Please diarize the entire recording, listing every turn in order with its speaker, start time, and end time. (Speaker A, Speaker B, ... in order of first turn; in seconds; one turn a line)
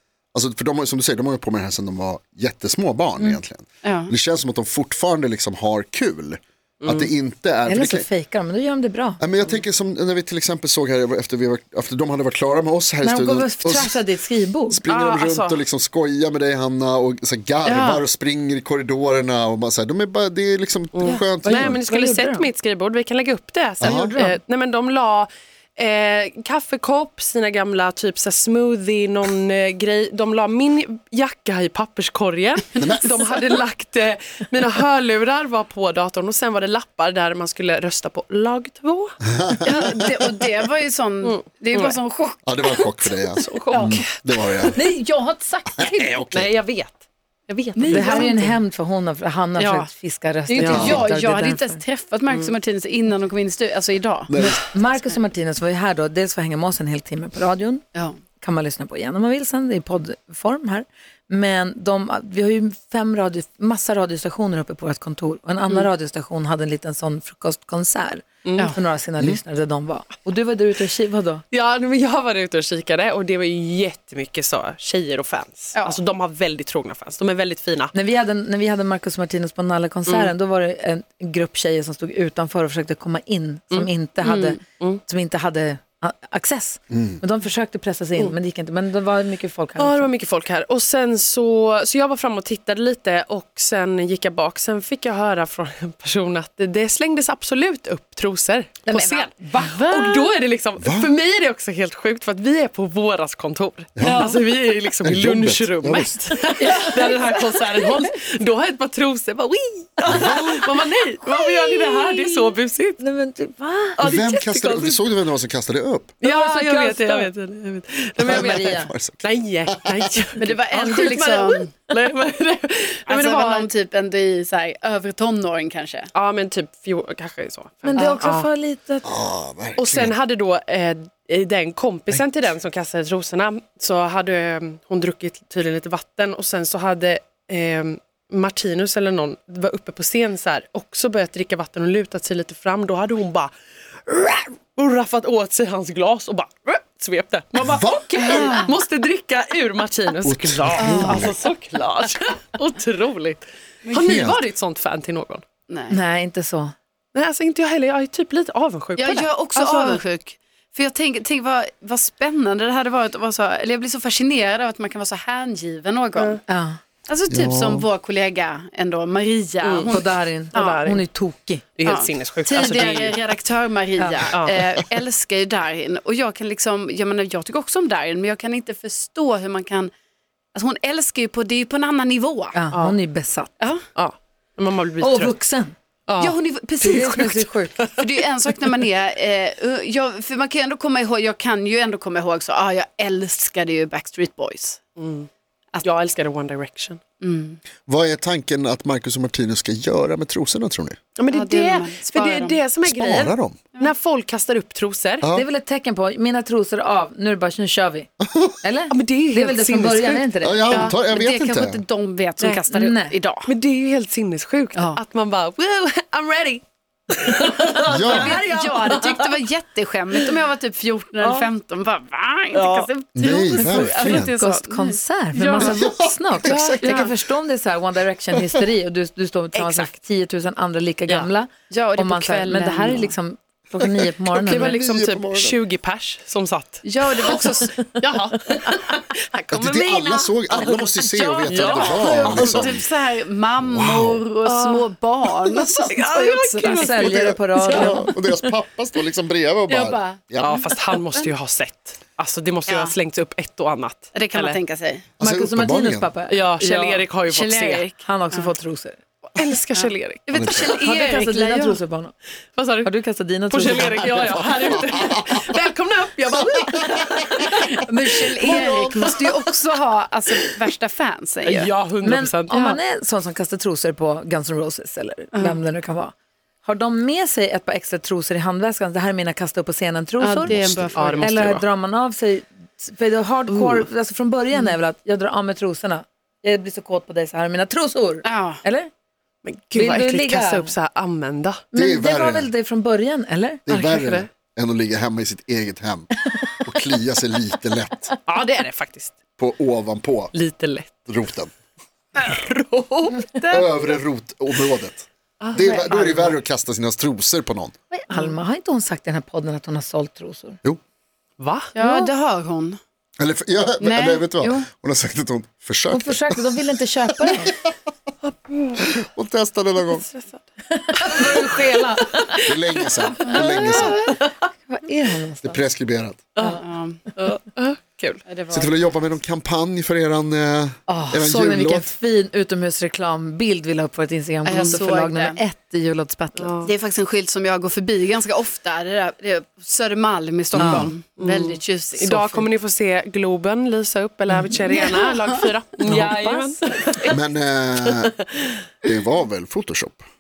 Speaker A: 0.3-8.1
Speaker B: 3.2-4.1
Speaker C: 6.8-7.1
Speaker D: 7.7-9.2
Speaker A: 9.2-14.0
Speaker D: 13.0-14.8
Speaker A: 14.7-21.8
Speaker C: 14.9-15.6
Speaker B: 17.7-18.0
Speaker C: 20.9-39.2
Speaker D: 21.4-22.5
Speaker A: 23.8-24.1
Speaker D: 23.8-24.4
Speaker A: 32.8-33.1
Speaker A: 39.3-39.8
Speaker B: 39.6-42.8
Speaker C: 41.2-42.0
Speaker A: 42.5-44.8
Speaker C: 43.4-44.8
Speaker B: 43.7-44.0
Speaker B: 44.7-46.2
Speaker A: 45.8-46.5
Speaker C: 46.3-48.6
Speaker B: 47.8-48.5
Speaker D: 47.9-51.8
Speaker C: 49.6-49.8
Speaker B: 50.5-54.4
Speaker C: 50.6-51.0
Speaker A: 50.7-51.1
Speaker A: 54.3-54.6
Speaker D: 54.4-57.8
Speaker D: 58.4-71.5
Speaker C: 68.5-68.7
Speaker C: 71.5-77.9
Speaker D: 77.9-90.1
Speaker B: 84.2-84.6
Speaker A: 86.9-87.2
Speaker C: 89.8-113.0
Speaker D: 98.8-100.3
Speaker A: 100.8-101.1
Speaker A: 104.0-104.3
Speaker D: 104.0-104.4
Speaker A: 105.0-106.2
Speaker D: 106.6-107.4
Speaker D: 110.1-110.6
Speaker A: 110.1-110.4
Speaker D: 111.2-114.1
Speaker C: 114.0-115.0
Speaker A: 114.0-116.2
Speaker C: 116.2-123.7
Speaker D: 116.2-117.3
Speaker A: 118.2-120.0
Speaker D: 118.2-118.9
Speaker B: 120.4-121.7
Speaker B: 123.1-126.1
Speaker C: 126.1-128.5
Speaker D: 127.8-129.1
Speaker B: 128.0-128.2
Speaker A: 129.0-130.2
Speaker C: 129.8-143.5
Speaker C: 144.1-155.4
Speaker A: 147.6-148.5
Speaker A: 150.2-151.3
Speaker B: 150.8-151.3
Speaker B: 153.9-154.1
Speaker A: 154.0-154.4
Speaker B: 155.7-156.0
Speaker D: 155.9-156.7
Speaker C: 157.2-160.0
Speaker B: 159.0-166.4
Speaker D: 166.5-166.8
Speaker B: 167.1-170.9
Speaker A: 167.3-167.8
Speaker C: 169.6-169.9
Speaker D: 169.9-171.7
Speaker C: 170.6-171.0
Speaker C: 171.8-173.4
Speaker B: 171.8-179.9
Speaker B: 180.5-182.9
Speaker D: 182.5-183.5
Speaker C: 183.9-185.4
Speaker D: 185.0-185.8
Speaker C: 186.1-186.4
Speaker B: 186.2-194.8
Speaker D: 186.8-187.9
Speaker C: 195.0-195.3
Speaker C: 195.8-197.0
Speaker B: 197.2-197.6
Speaker A: 197.9-201.0
Speaker C: 201.2-205.2
Speaker B: 201.3-202.6
Speaker A: 202.8-203.6
Speaker A: 205.2-205.5
Speaker D: 205.3-208.1
Speaker A: 208.2-208.6
Speaker D: 208.6-210.9
Speaker C: 208.9-210.3
Speaker A: 210.4-211.8
Speaker B: 210.7-213.5
Speaker D: 212.7-213.1
Speaker C: 213.5-219.4
Speaker A: 217.9-218.4
Speaker B: 218.0-225.0
Speaker C: 220.1-220.4
Speaker C: 221.2-221.5
Speaker C: 222.5-224.3
Speaker A: 223.2-224.3
Speaker D: 224.1-234.8
Speaker C: 225.3-225.8
Speaker A: 225.6-226.9
Speaker C: 226.4-227.1
Speaker B: 226.7-227.1
Speaker C: 229.5-229.9
Speaker B: 231.7-233.1
Speaker C: 234.3-242.8
Speaker A: 234.5-235.6
Speaker B: 236.8-237.9
Speaker A: 239.5-242.9
Speaker B: 241.5-247.9
Speaker A: 243.6-244.2
Speaker C: 244.4-247.9
Speaker D: 246.6-248.3
Speaker A: 247.1-250.5
Speaker B: 249.7-251.0
Speaker C: 250.4-254.6
Speaker B: 252.7-252.9
Speaker B: 254.1-255.1
Speaker A: 255.2-256.1
Speaker D: 255.2-257.1
Speaker C: 256.3-257.9
Speaker B: 257.3-258.5
Speaker D: 258.0-259.0
Speaker C: 259.4-261.1
Speaker B: 259.7-261.8
Speaker A: 260.3-260.7
Speaker D: 260.7-262.1
Speaker C: 262.6-262.9
Speaker D: 262.8-264.5
Speaker C: 263.5-269.3
Speaker B: 267.5-271.7
Speaker C: 271.4-272.8
Speaker D: 272.0-280.6
Speaker B: 275.3-275.6
Speaker B: 280.2-281.5
Speaker A: 280.5-280.8
Speaker C: 280.7-281.6
Speaker D: 281.2-288.9
Speaker C: 283.5-283.9
Speaker B: 288.2-288.6
Speaker C: 289.4-291.6
Speaker D: 289.7-290.7
Speaker D: 291.7-293.6
Speaker A: 291.7-292.5
Speaker A: 293.7-298.2
Speaker C: 293.7-294.3
Speaker C: 298.3-299.2
Speaker A: 299.4-300.3
Speaker C: 300.3-300.9
Speaker A: 301.1-301.5
Speaker C: 302.2-303.5
Speaker A: 303.5-307.7
Speaker C: 305.4-306.4
Speaker D: 307.9-310.6
Speaker C: 311.4-312.0
Speaker B: 311.8-312.8
Speaker A: 313.2-316.6
Speaker B: 313.8-314.6
Speaker D: 315.9-317.5
Speaker C: 318.2-318.9
Speaker A: 318.9-320.1
Speaker C: 319.9-320.4
Speaker D: 320.7-322.5
Speaker C: 321.0-321.8
Speaker C: 322.3-323.6
Speaker A: 322.5-324.0
Speaker D: 323.3-325.6
Speaker B: 323.3-324.0
Speaker A: 325.4-326.3
Speaker B: 326.4-327.0
Speaker C: 327.2-328.2
Speaker B: 328.3-329.0
Speaker A: 328.5-331.9
Speaker D: 330.9-336.5
Speaker B: 334.5-335.4
Speaker C: 336.4-336.7
Speaker B: 336.6-342.5
Speaker A: 340.6-340.9
Speaker D: 340.6-340.9
Speaker C: 340.6-347.2
Speaker D: 345.8-346.6
Speaker A: 347.1-348.1
Speaker C: 347.8-348.5
Speaker A: 348.8-350.0